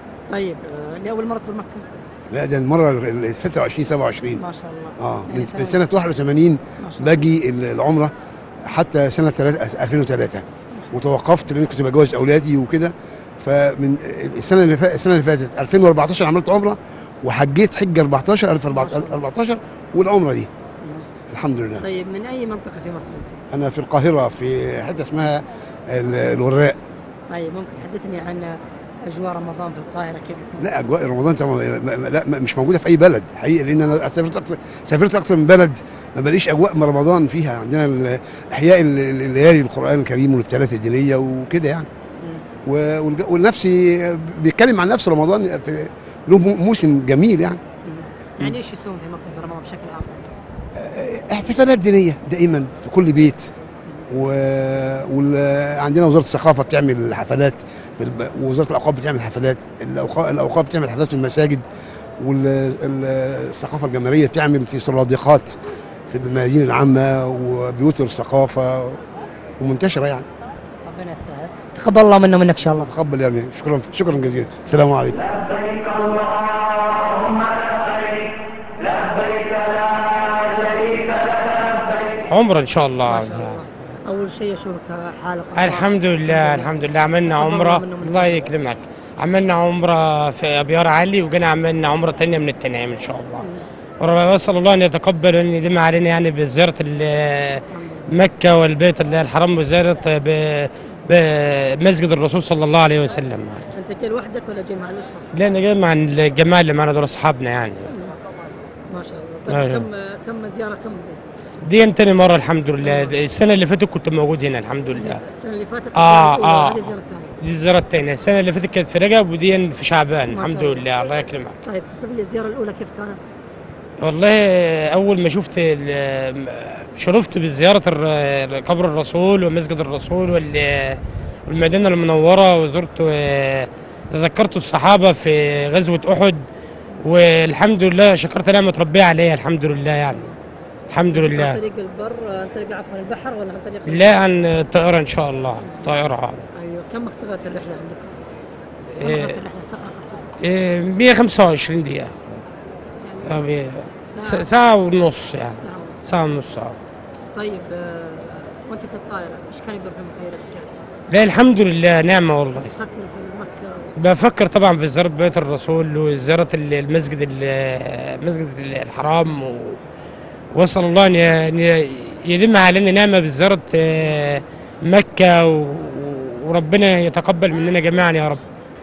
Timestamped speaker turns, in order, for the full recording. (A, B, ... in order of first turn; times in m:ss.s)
0:00.3-0:01.9 A
0:02.3-0:04.4 B
0:04.4-0:05.8 A
0:05.0-0:08.1 B
0:06.8-0:07.3 A
0:08.6-0:20.5 B
0:18.7-0:19.2 A
0:21.3-0:21.8 B
0:21.8-0:23.4 A
0:23.5-0:26.8 B
0:27.3-0:30.7 A
0:30.6-0:41.9 B
0:42.6-0:47.6 B
0:47.8-0:50.3 A
0:50.8-0:53.5 B
0:54.1-1:01.6 B
1:02.2-1:05.6 B
1:06.1-1:09.0 B
1:09.6-1:10.3 B
1:10.9-1:12.9 A
1:12.6-1:15.2 B
1:22.3-1:23.6 C
1:23.1-1:26.8 A
1:25.6-1:33.5 C
1:27.3-1:28.5 A
1:33.4-1:33.6 A
1:34.0-1:43.7 C
1:37.7-1:38.1 A
1:43.7-1:45.3 A
1:45.3-1:47.9 C
1:47.9-1:48.1 A
1:48.9-1:51.2 A
1:49.5-1:49.9 C
1:51.6-1:55.2 C
1:52.8-1:53.2 A
1:55.0-1:57.4 A
1:56.0-2:01.6 C
2:00.3-2:00.9 A
2:01.6-2:03.3 A
2:04.0-2:16.4 C
2:17.0-2:20.3 C
2:20.9-2:21.6 C
2:21.1-2:24.2 A
2:23.9-2:26.5 C
2:25.6-2:26.0 A
2:26.6-2:28.2 A
2:28.9-2:29.4 C
2:29.0-2:30.4 A
2:30.4-2:32.5 C
2:33.0-2:34.5 A
2:33.2-2:36.8 C
2:35.6-2:36.0 A
2:37.3-2:40.8 A
2:41.1-2:42.8 C
2:42.7-2:44.0 A
2:44.0-2:49.8 C
2:50.5-2:58.4 C